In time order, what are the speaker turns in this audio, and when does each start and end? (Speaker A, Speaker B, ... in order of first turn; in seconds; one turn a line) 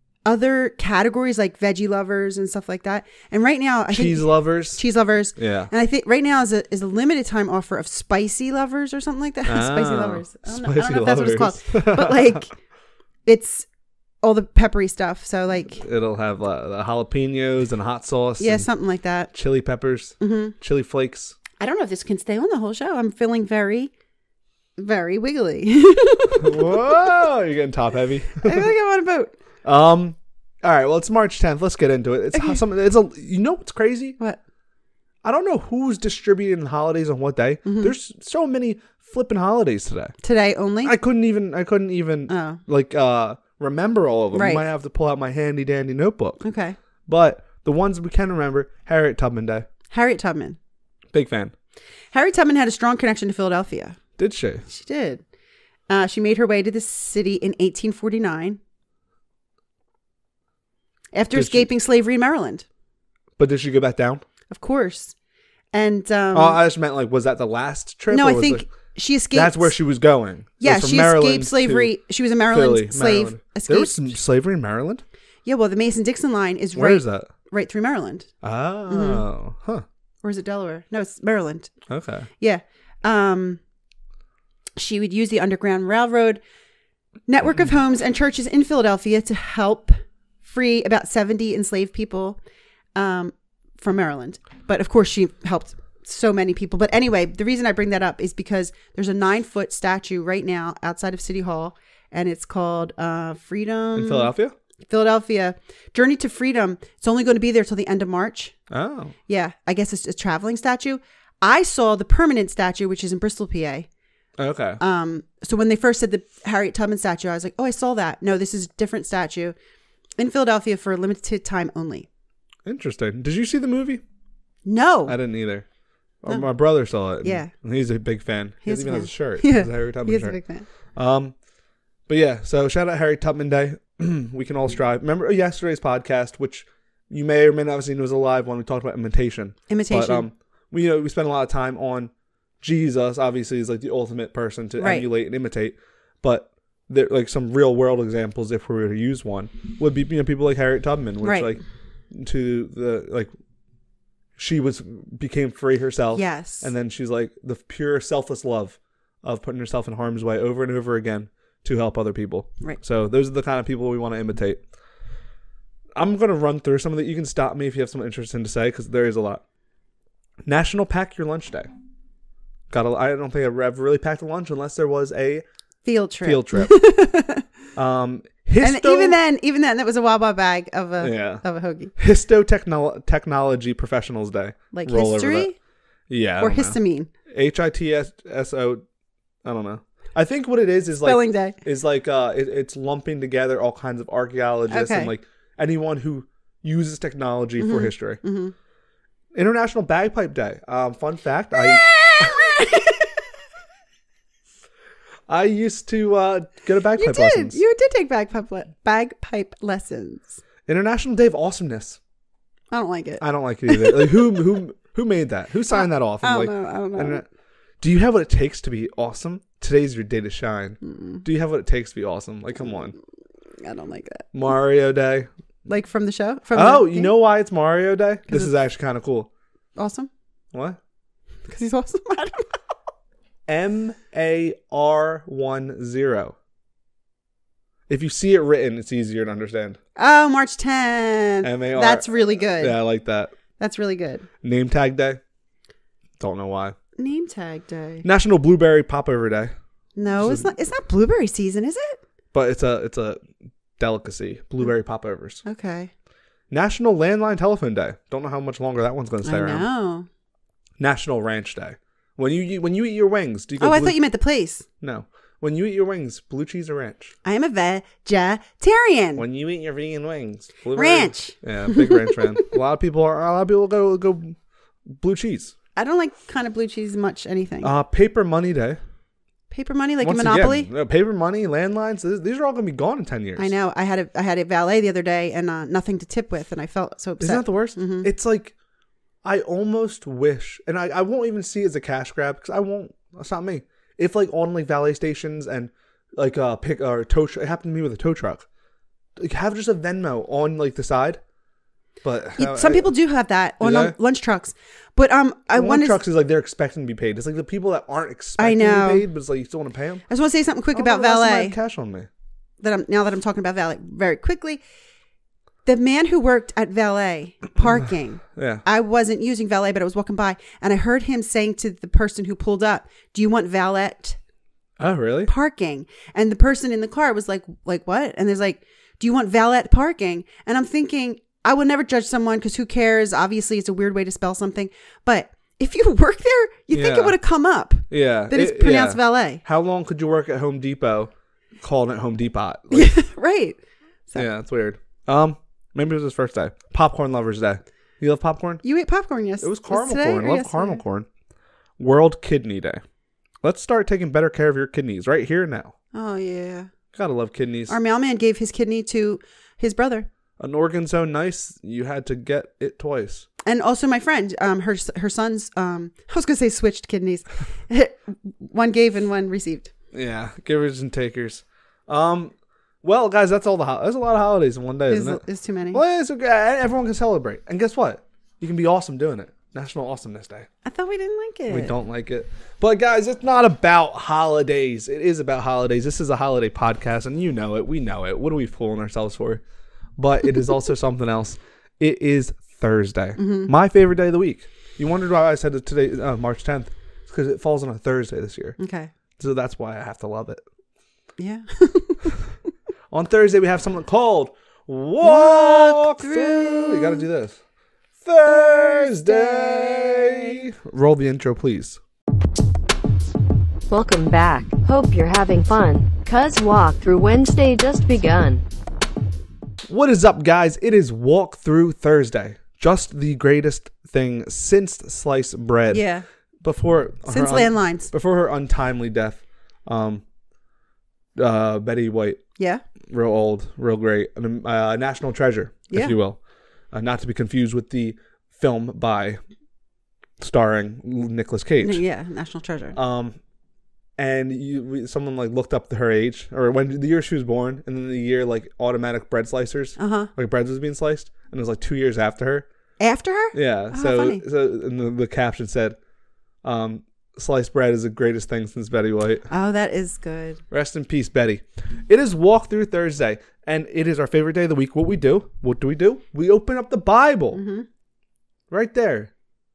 Speaker A: 0.2-12.6
Speaker B: 3.9-4.8
Speaker B: 5.4-5.7
Speaker B: 9.4-12.5
Speaker A: 13.2-13.7
Speaker A: 14.2-15.8
Speaker B: 15.8-18.7
Speaker A: 18.4-19.3
Speaker B: 19.3-21.4
Speaker A: 20.2-20.6
Speaker A: 21.6-23.9
Speaker A: 24.8-27.1
Speaker B: 26.4-28.7
Speaker A: 28.4-29.3
Speaker B: 29.6-34.2
Speaker A: 32.3-32.6
Speaker B: 35.2-40.1
Speaker A: 37.6-37.9
Speaker A: 40.2-40.9
Speaker B: 40.8-46.4
Speaker A: 42.3-42.6
Speaker A: 44.3-44.6
Speaker A: 46.4-46.8
Speaker B: 47.0-49.6
Speaker A: 49.9-50.6
Speaker B: 51.1-51.5
Speaker A: 52.1-54.0
Speaker B: 54.2-54.7
Speaker A: 54.7-55.2
Speaker A: 55.9-58.6
Speaker A: 61.1-62.6
Speaker B: 61.3-61.7
Speaker B: 63.4-64.2
Speaker A: 64.5-65.1
Speaker A: 65.7-66.6
Speaker B: 66.3-68.7
Speaker A: 68.1-69.7
Speaker B: 69.3-71.9
Speaker A: 70.6-73.9
Speaker B: 72.5-75.0
Speaker A: 75.5-78.3
Speaker B: 76.7-77.3
Speaker B: 78.4-79.8
Speaker A: 78.9-79.2
Speaker A: 80.2-81.7
Speaker B: 81.9-82.3
Speaker A: 82.4-83.6
Speaker A: 84.8-86.4
Speaker A: 87.3-92.4
Speaker A: 93.0-104.3
Speaker B: 104.0-104.5
Speaker A: 104.9-108.5
Speaker B: 108.7-109.1
Speaker A: 109.3-113.9
Speaker B: 114.4-114.8
Speaker A: 114.8-119.5
Speaker A: 120.2-122.1
Speaker B: 122.7-124.0
Speaker A: 124.6-125.2
Speaker B: 125.0-125.7
Speaker B: 126.2-130.4
Speaker A: 127.2-127.5
Speaker A: 128.6-130.7
Speaker B: 130.9-131.3
Speaker B: 132.1-153.3
Speaker A: 139.7-140.2
Speaker A: 144.8-145.1
Speaker A: 151.2-151.5
Speaker B: 154.4-164.6
Speaker A: 156.2-156.7
Speaker B: 166.0-169.4
Speaker B: 170.5-171.7
Speaker B: 172.7-175.4
Speaker A: 175.8-177.5
Speaker B: 176.2-176.8
Speaker B: 177.8-179.2
Speaker A: 178.6-181.9
Speaker B: 181.0-181.4
Speaker B: 181.9-185.5
Speaker A: 184.7-185.5
Speaker B: 186.1-186.8
Speaker A: 186.4-187.1
Speaker B: 187.3-188.8
Speaker B: 189.4-198.2
Speaker A: 191.0-191.6
Speaker A: 194.7-195.1
Speaker A: 197.6-198.5
Speaker B: 199.3-202.4
Speaker A: 201.5-203.3
Speaker B: 205.3-207.6
Speaker A: 207.0-210.4
Speaker B: 210.7-212.0
Speaker A: 212.7-214.4
Speaker B: 213.2-217.2
Speaker A: 215.7-217.2
Speaker B: 217.8-223.0
Speaker A: 220.8-221.2
Speaker A: 223.6-224.3
Speaker B: 224.3-225.3
Speaker A: 225.7-227.1
Speaker B: 226.5-229.3
Speaker A: 229.8-230.1
Speaker B: 230.5-230.8
Speaker A: 231.4-232.7
Speaker B: 233.5-236.4
Speaker B: 237.9-239.8
Speaker A: 240.0-242.8
Speaker B: 241.4-243.3
Speaker A: 243.6-244.2
Speaker B: 244.4-245.2
Speaker B: 246.2-246.8
Speaker A: 247.0-248.0
Speaker B: 248.0-249.5
Speaker A: 250.0-252.0
Speaker B: 250.2-250.5
Speaker B: 252.3-253.2
Speaker B: 253.8-255.4
Speaker A: 255.4-255.9
Speaker B: 256.5-259.7
Speaker A: 259.2-260.1
Speaker B: 260.8-264.0
Speaker A: 263.6-264.6
Speaker B: 264.8-267.1
Speaker A: 267.2-269.2
Speaker B: 269.1-274.4
Speaker A: 270.8-272.5
Speaker B: 274.9-275.5
Speaker A: 275.8-277.7
Speaker B: 277.6-278.8
Speaker A: 279.5-280.7
Speaker B: 280.0-283.5
Speaker A: 283.4-288.1
Speaker B: 287.2-288.5
Speaker B: 289.2-298.5
Speaker B: 299.2-301.2
Speaker B: 302.0-302.9
Speaker A: 302.4-306.0
Speaker B: 303.6-304.0
Speaker B: 305.5-310.0
Speaker A: 308.4-309.1
Speaker A: 310.1-311.6
Speaker B: 310.7-312.1
Speaker A: 312.6-314.6
Speaker A: 315.6-324.2
Speaker B: 318.4-318.6
Speaker B: 324.8-325.3
Speaker A: 325.3-339.4
Speaker B: 336.7-337.1
Speaker B: 337.9-341.1
Speaker B: 341.6-342.9
Speaker A: 342.7-344.3
Speaker B: 344.1-348.6
Speaker A: 348.6-350.8
Speaker B: 349.4-351.1
Speaker B: 351.8-352.8
Speaker B: 353.4-355.7
Speaker A: 355.9-356.7
Speaker B: 356.9-357.8
Speaker A: 357.7-360.1
Speaker B: 360.4-363.3
Speaker A: 363.4-369.7
Speaker B: 369.9-380.5
Speaker A: 374.9-375.8
Speaker A: 380.6-381.7
Speaker B: 381.5-389.4
Speaker B: 390.0-398.6
Speaker A: 393.2-393.5
Speaker A: 398.6-398.9
Speaker B: 399.2-400.4
Speaker A: 401.2-402.2
Speaker B: 402.9-407.4
Speaker A: 405.0-407.1
Speaker B: 408.0-411.8
Speaker A: 408.2-410.4
Speaker C: 413.7-418.4
Speaker B: 419.7-425.9
Speaker A: 425.7-426.0
Speaker B: 426.4-430.0
Speaker A: 427.1-427.9
Speaker B: 431.2-432.2
Speaker B: 432.9-436.2
Speaker B: 436.7-439.2
Speaker B: 440.2-441.8
Speaker A: 441.6-442.8
Speaker B: 442.7-443.2
Speaker B: 444.0-452.5
Speaker A: 449.8-450.1
Speaker A: 452.8-454.2
Speaker B: 453.3-455.8
Speaker B: 456.4-459.3
Speaker A: 459.3-460.4
Speaker B: 460.5-467.4
Speaker A: 467.3-467.7
Speaker B: 468.5-469.1